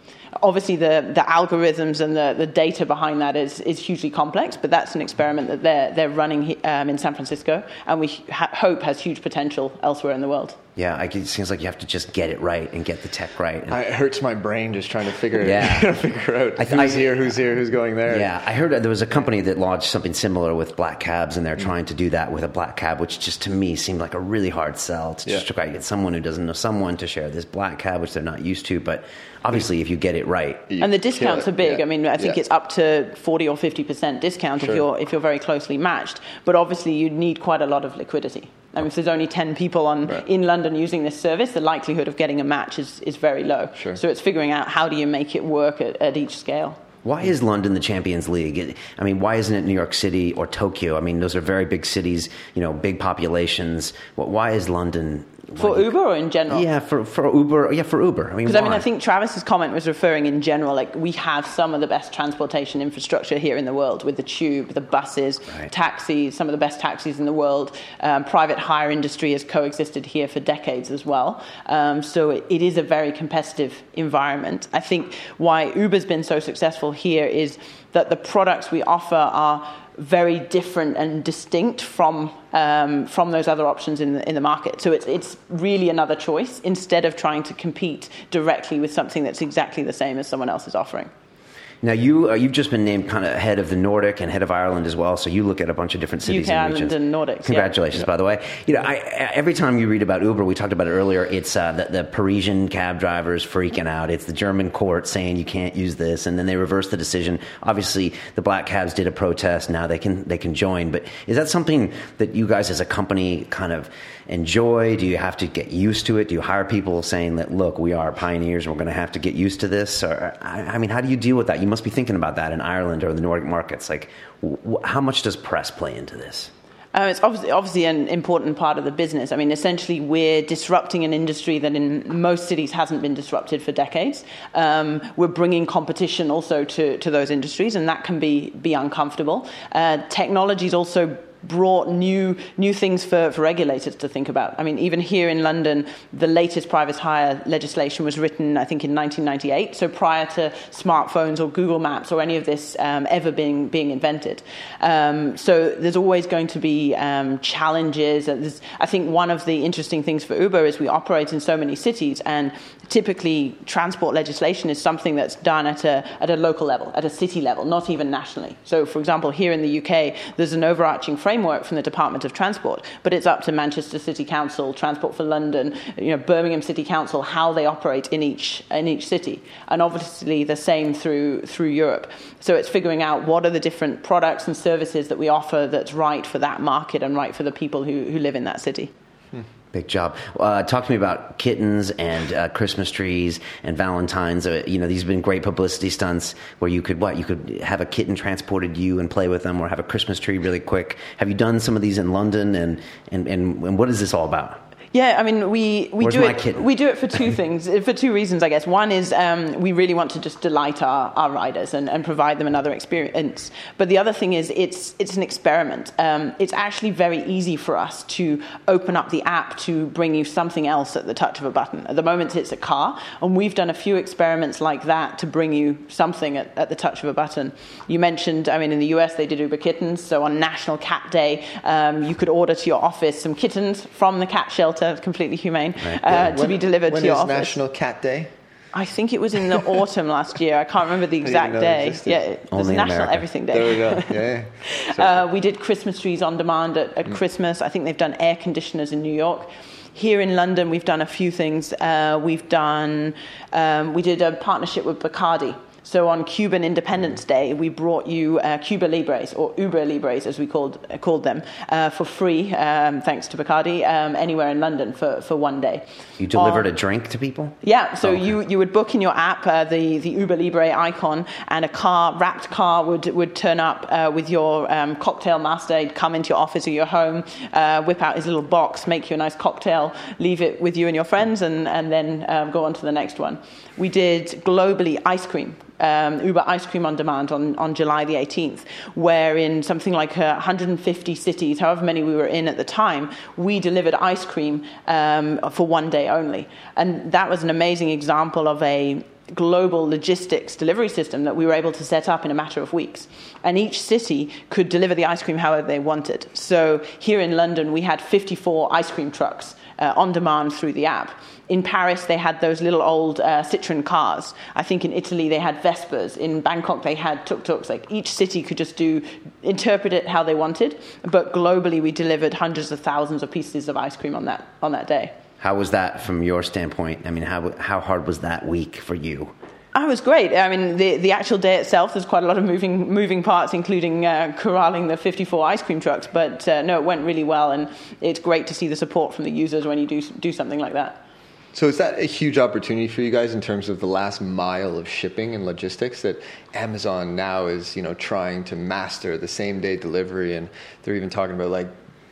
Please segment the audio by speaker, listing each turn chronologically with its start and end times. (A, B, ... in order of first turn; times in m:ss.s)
0:00.4-0:10.6 A
0:10.8-0:13.8 B
0:13.7-0:18.3 C
0:15.4-0:15.9 B
0:16.6-0:17.2 B
0:18.1-0:30.7 B
0:30.7-0:32.4 C
0:30.8-0:46.8 A
0:47.0-0:55.9 B
0:55.6-0:56.7 A
0:56.5-0:58.8 B
0:58.4-1:31.1 A
1:31.8-2:06.5 B
1:36.3-1:38.1 A
2:06.9-3:08.9 A
3:09.7-3:24.6 B
3:24.9-3:57.6 A
3:26.0-3:26.6 B
3:55.8-3:56.2 B
3:56.1-3:58.3 C
3:58.7-4:04.2 A
4:01.2-4:02.2 C
4:02.5-4:03.3 B
4:03.5-4:05.2 C
4:04.7-4:26.6 A
4:26.2-4:28.2 B
4:27.6-5:25.1 A
5:25.4-5:29.3 B
5:29.7-5:41.0 A
5:41.5-5:51.7 C